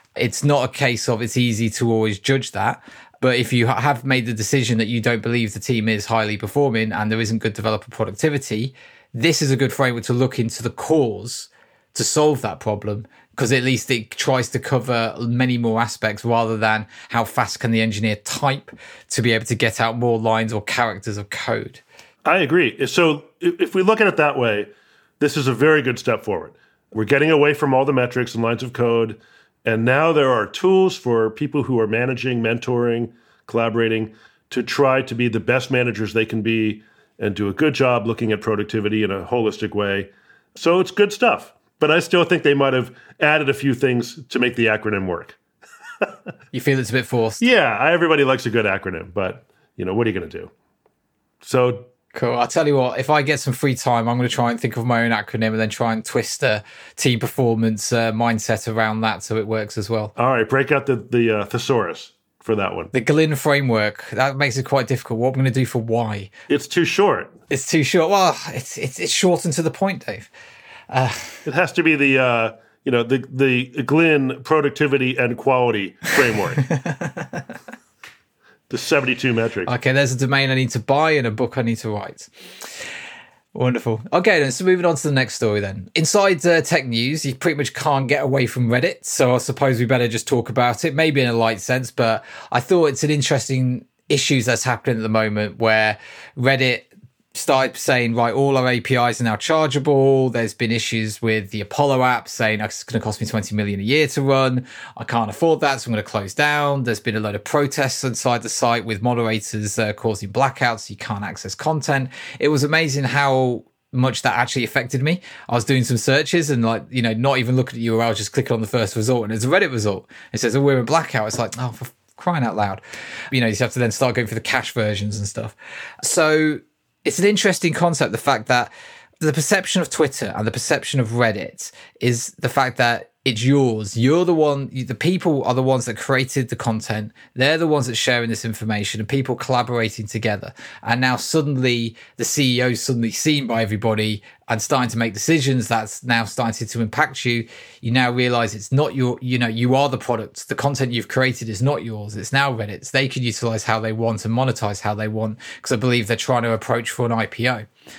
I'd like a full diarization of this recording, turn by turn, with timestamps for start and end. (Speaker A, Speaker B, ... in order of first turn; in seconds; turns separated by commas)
Speaker A: 0.2-21.8, Speaker B: 22.2-24.7, Speaker B: 25.2-45.4, Speaker A: 46.5-47.4, Speaker B: 47.4-50.5, Speaker B: 51.4-51.9, Speaker A: 52.1-60.1, Speaker B: 60.1-62.9, Speaker A: 62.9-66.3, Speaker B: 66.5-67.3, Speaker A: 67.5-70.3, Speaker A: 70.9-71.4, Speaker B: 71.4-76.6, Speaker A: 76.6-77.4, Speaker B: 78.7-79.7, Speaker A: 79.7-82.3, Speaker A: 83.5-122.8, Speaker A: 123.3-157.7